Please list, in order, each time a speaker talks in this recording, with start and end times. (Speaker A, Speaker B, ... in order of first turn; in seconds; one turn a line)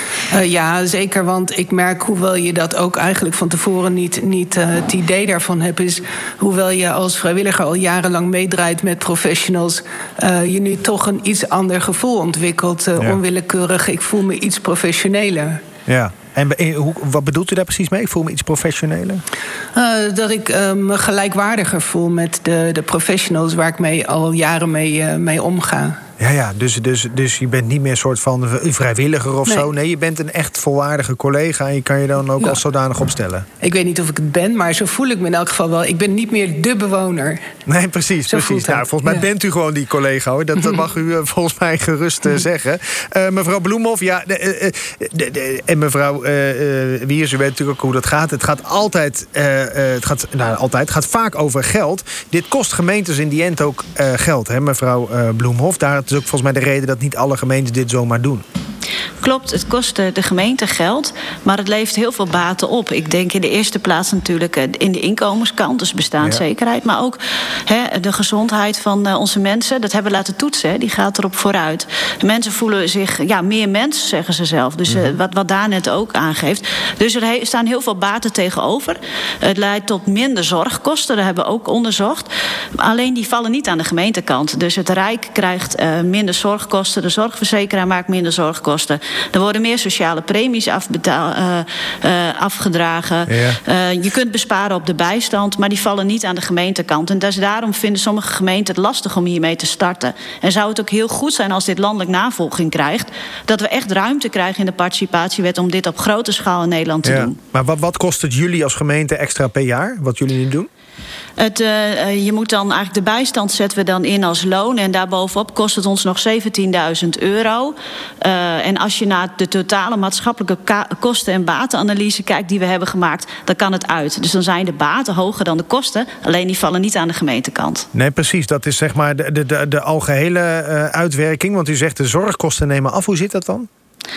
Speaker A: 0.3-15.6
Speaker B: 15.9-19.2
Speaker A: 19.8-26.0
Speaker B: 26.2-33.5
Speaker A: 33.6-37.4
Speaker B: 37.7-58.4
Speaker A: 38.3-39.2
Speaker C: 59.2-107.4
Speaker B: 74.9-75.2
Speaker B: 93.3-93.6
Speaker B: 107.0-110.7
Speaker C: 111.4-127.9
Speaker B: 127.9-133.7